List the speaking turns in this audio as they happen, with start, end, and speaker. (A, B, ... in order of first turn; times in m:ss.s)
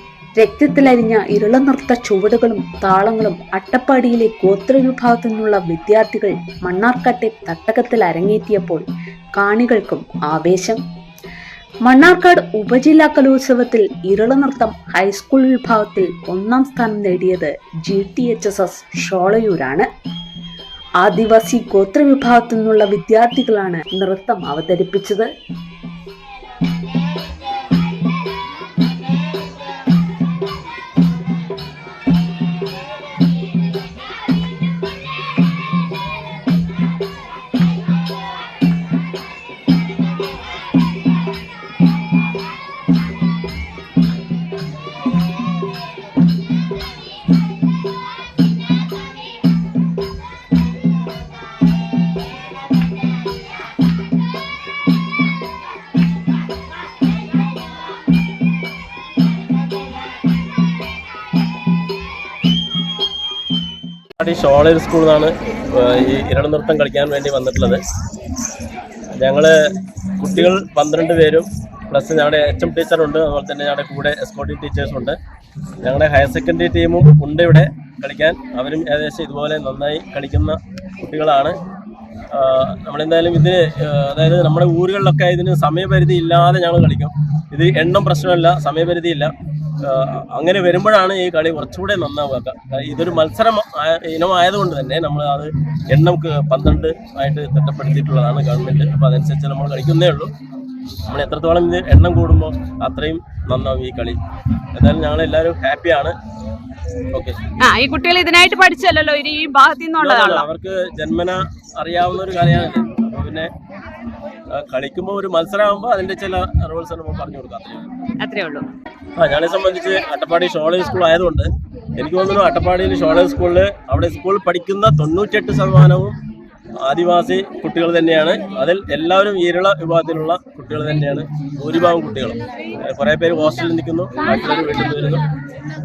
0:00.4-0:08.8 A
0:09.4-0:10.8 A
0:11.8-0:19.9 A
0:21.0-0:25.3 A
1:04.2-1:07.8 B
1:09.2-1:09.5 B
1:10.2-1:15.2 B
1:15.8-1:21.5 B
1:22.3-1:40.3 B
1:41.0-1:44.2 B
1:44.7-1:46.2 B
1:47.1-1:47.4 B
1:47.6-1:50.5 C
1:50.0-1:53.5 B
1:54.5-1:57.9 B
1:58.2-1:58.7 C
1:59.2-2:06.2 B
2:06.8-2:15.3 B